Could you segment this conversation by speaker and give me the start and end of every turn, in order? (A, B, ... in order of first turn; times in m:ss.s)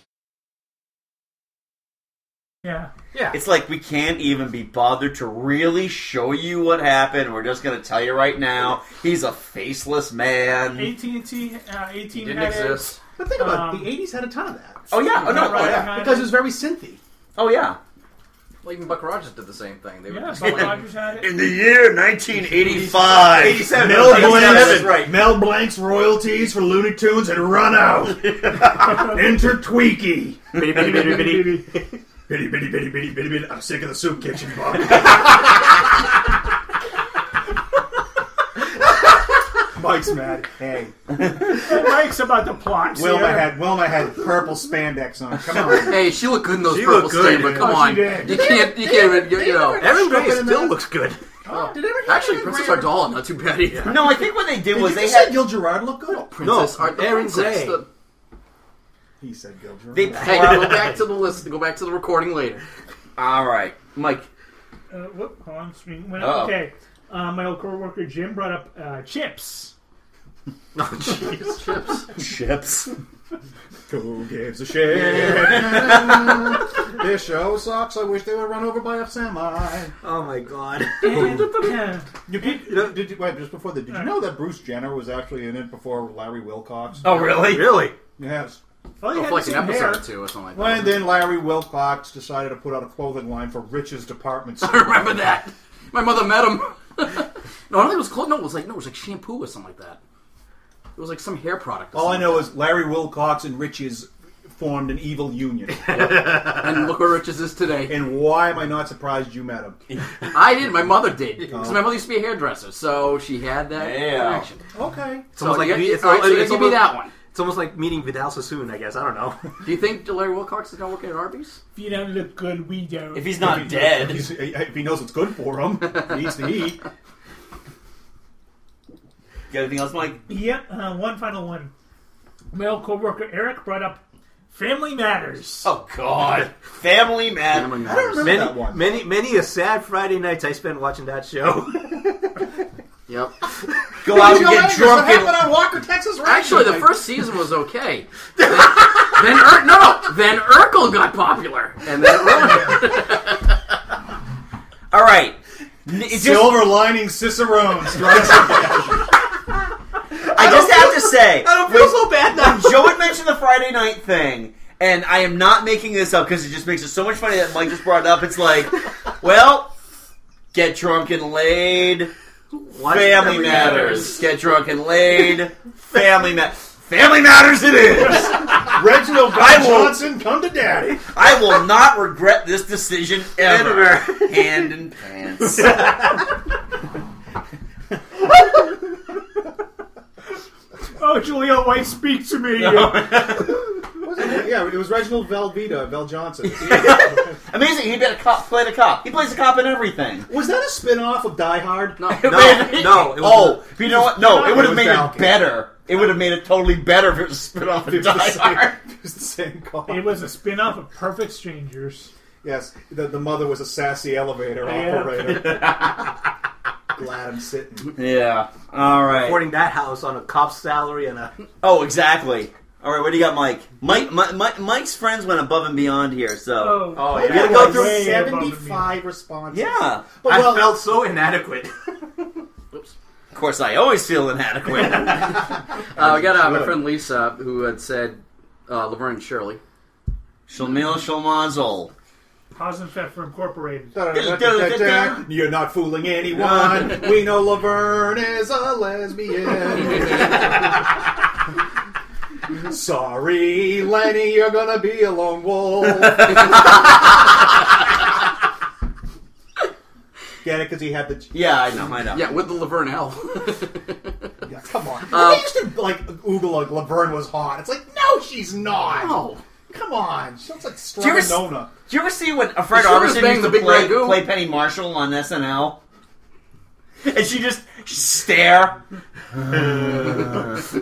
0:02.6-0:02.9 A
0:03.3-0:10.9 B
0:10.7-0:13.9 A
0:12.1-0:13.0 C
0:13.2-0:17.0 D
0:14.9-0:15.9 B
0:15.2-0:16.4 A
0:17.4-0:17.8 B
0:18.6-0:20.8 C
0:20.1-0:21.3 A
0:21.2-0:25.2 B
0:22.7-0:25.0 E
0:23.5-0:31.4 D
0:30.6-0:31.8 E
0:30.8-0:31.6 A
0:32.3-0:35.6 D
0:39.7-0:41.1 D
0:41.5-0:43.6 A
0:42.9-0:46.1 D
0:45.7-0:49.9 C
0:46.6-0:47.8 E
0:47.2-0:50.8 D
0:47.4-0:48.7 A
0:49.8-0:51.2 E
0:51.5-0:51.8 A
0:51.5-0:53.9 C
0:51.5-0:53.0 D
0:53.7-0:54.0 E
0:53.8-0:55.5 B
0:54.7-0:56.3 D
0:56.3-0:57.9 C
0:56.4-0:57.8 E
0:59.2-1:00.6 D
0:59.9-1:00.8 B
1:00.2-1:02.6 C
1:00.2-1:01.0 E
1:03.2-1:04.3 B
1:04.9-1:09.7 A
1:06.2-1:06.6 B
1:10.7-1:11.6 E
1:11.4-1:12.1 C
1:12.2-1:12.9 B
1:13.9-1:19.9 D
1:15.2-1:16.4 B
1:20.0-1:21.6 E
1:21.0-1:22.6 A
1:21.0-1:21.7 D
1:22.2-1:27.1 D
1:22.7-1:22.9 E
1:23.9-1:24.2 A
1:27.0-1:27.8 B
1:27.2-1:27.9 E
1:28.2-1:28.6 D
1:29.0-1:30.0 A
1:29.1-1:31.1 C
1:30.5-1:35.3 D
1:34.6-1:40.0 C
1:41.0-1:42.5 C
1:41.9-1:46.5 D
1:45.9-1:48.0 C
1:47.9-1:49.8 D
1:50.3-1:54.6 C
1:51.5-1:52.0 D
1:53.7-1:54.4 B
1:54.7-1:55.2 D
1:55.3-1:59.4 E
1:55.4-1:57.1 C
1:59.6-2:01.6 C
2:01.7-2:03.5 A
2:03.1-2:04.3 B
2:03.4-2:06.8 D
2:09.5-2:10.2 B
2:10.3-2:11.7 A
2:12.5-2:15.7 A
2:15.6-2:17.8 B
2:17.5-2:18.4 C
2:17.8-2:18.8 D
2:18.2-2:22.3 E
2:23.1-2:23.3 C
2:24.0-2:25.5 B
2:24.0-2:27.0 D
2:26.2-2:33.5 C
2:34.9-2:36.8 B
2:35.9-2:39.1 D
2:38.2-2:38.5 B
2:40.3-2:49.7 B
2:40.4-2:42.9 E
2:50.5-2:52.1 B
2:52.5-2:54.2 E
2:52.8-3:00.1 B
2:58.4-3:01.0 D
3:01.1-3:06.2 B
3:03.4-3:04.7 E
3:05.6-3:06.0 E
3:11.0-3:13.3 A
3:12.6-3:13.6 B
3:13.4-3:17.2 D
3:16.6-3:20.3 B
3:20.3-3:22.0 D
3:22.0-3:22.8 C
3:22.1-3:28.8 B
3:22.2-3:23.7 E
3:23.9-3:25.4 D
3:24.5-3:24.8 E
3:27.8-3:30.3 D
3:29.9-3:32.1 A
3:32.4-3:36.0 D
3:34.6-3:35.4 A
3:35.3-3:36.0 B
3:36.9-3:37.9 D
3:37.9-3:39.5 B
3:39.0-3:41.4 E
3:41.6-3:48.1 B
3:46.6-3:49.0 A
3:46.9-3:47.8 E
3:47.1-3:50.8 D
3:49.5-3:50.1 B
3:50.2-3:51.7 E
3:53.3-3:55.5 B
3:56.0-3:56.8 D
3:56.0-3:59.6 C
4:00.5-4:01.9 B
4:02.5-4:04.0 A
4:03.9-4:11.0 D
4:04.1-4:05.2 B
4:06.3-4:07.0 B
4:12.6-4:16.9 D
4:20.4-4:21.3 D
4:21.3-4:22.3 B
4:22.1-4:24.3 C
4:24.5-4:31.7 D
4:25.1-4:25.5 C
4:28.9-4:29.4 C
4:31.0-4:35.8 B
4:32.7-4:34.3 C
4:37.0-4:38.8 B